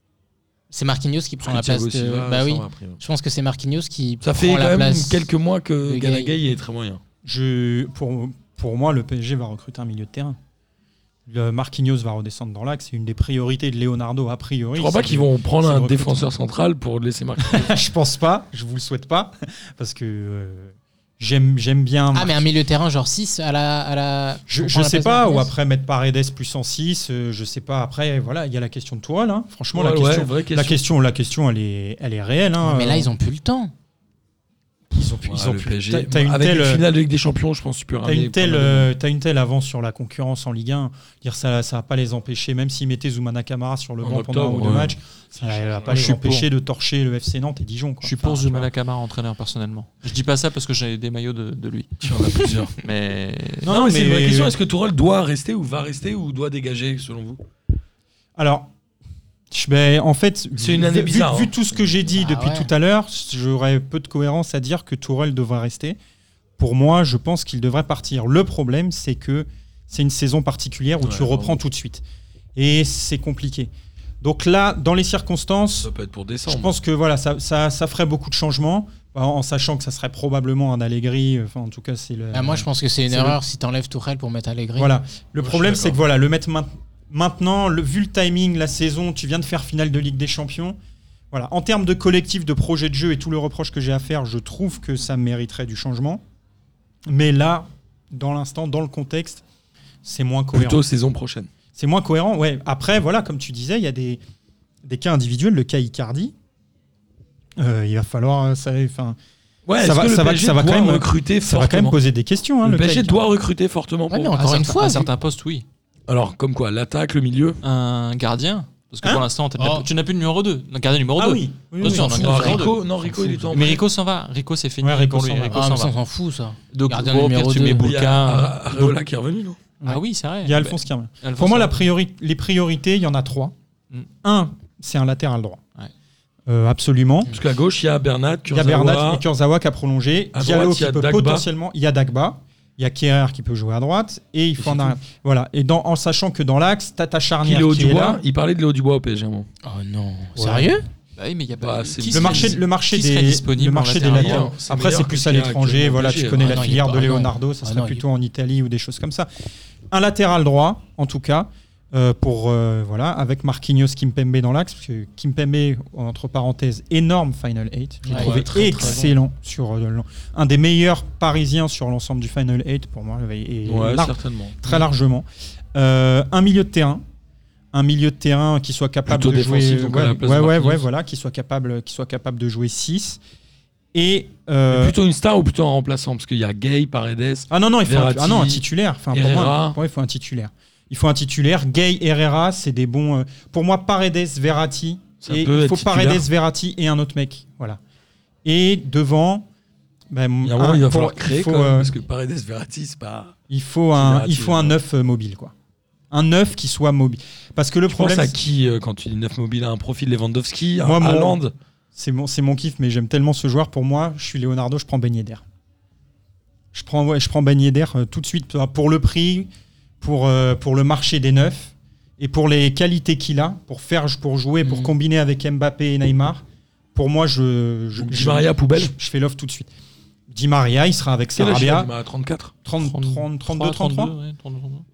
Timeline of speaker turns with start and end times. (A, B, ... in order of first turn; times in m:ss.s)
0:00.7-0:05.3 A
0:01.4-0:03.0 B
0:04.2-0:07.0 B
0:05.8-0:06.4 A
0:07.2-0:10.4 C
0:11.3-0:16.3 C
0:14.7-0:17.7 B
0:17.4-0:22.4 C
0:22.1-0:25.5 A
0:24.5-0:33.1 C
0:29.7-0:30.8 B
0:32.6-0:33.7 A
0:34.9-0:36.8 C
0:35.2-0:38.9 B
0:38.0-0:48.7 C
0:44.0-0:46.0 B
0:45.9-0:46.5 D
0:48.0-0:53.7 D
0:52.0-0:52.7 B
0:53.6-0:54.6 C
0:53.7-0:57.4 B
0:58.4-0:58.7 C
0:59.5-1:06.0 C
1:00.6-1:01.6 B
1:02.2-1:02.7 A
1:06.6-1:12.0 C
1:11.0-1:11.6 B
1:12.6-1:13.7 C
1:14.2-1:15.9 C
1:15.8-1:16.7 B
1:16.4-1:23.4 C
1:22.3-1:24.9 A
1:24.8-1:30.8 C
1:25.4-1:26.0 B
1:31.3-1:36.2 C
1:37.1-1:39.4 C
1:40.0-1:40.8 C
1:40.5-1:41.5 B
1:41.7-1:44.2 C
1:44.8-1:46.3 C
1:47.6-1:49.2 C
1:49.6-1:52.0 B
1:49.8-1:53.2 C
1:52.6-1:54.3 B
1:54.1-1:55.1 A
1:54.4-1:55.6 D
1:56.1-1:57.6 B
1:57.6-2:02.8 D
1:59.6-1:59.9 A
2:01.2-2:03.8 C
2:01.8-2:02.6 A
2:02.0-2:03.8 B
2:03.5-2:05.9 D
2:04.8-2:05.7 C
2:05.5-2:07.8 A
2:06.7-2:08.6 D
2:07.8-2:09.6 B
2:09.8-2:13.5 C
2:09.8-2:11.9 D
2:14.2-2:15.6 C
2:16.5-2:17.3 C
2:17.3-2:19.2 B
2:18.5-2:28.2 C
2:20.3-2:21.4 B
2:24.6-2:24.9 B
2:27.4-2:29.5 B
2:29.6-2:30.8 A
2:30.4-2:30.8 C
2:31.2-2:34.5 D
2:31.6-2:32.5 B
2:32.1-2:39.3 C
2:33.9-2:36.6 B
2:36.4-2:38.0 A
2:39.9-2:57.0 C
2:48.0-2:49.2 A
2:53.6-2:54.6 B
2:57.7-3:03.2 C
2:59.1-3:00.8 B
3:03.9-3:05.0 C
3:04.7-3:09.8 B
3:07.5-3:17.8 C
3:15.2-3:16.2 B
3:18.4-3:19.5 C
3:20.1-3:21.9 C
3:20.4-3:23.4 B
3:23.5-3:25.5 C
3:23.9-3:24.8 B
3:26.1-3:28.4 C
3:27.9-3:31.5 B
3:30.8-3:31.4 C
3:31.9-3:35.4 C
3:36.7-3:39.5 C
3:40.0-3:46.4 C
3:44.6-3:44.9 A
3:46.9-3:49.7 C
3:48.0-3:48.9 B
3:50.3-3:51.9 C
3:51.3-3:52.5 B
3:52.6-3:54.1 C
3:52.8-3:54.8 D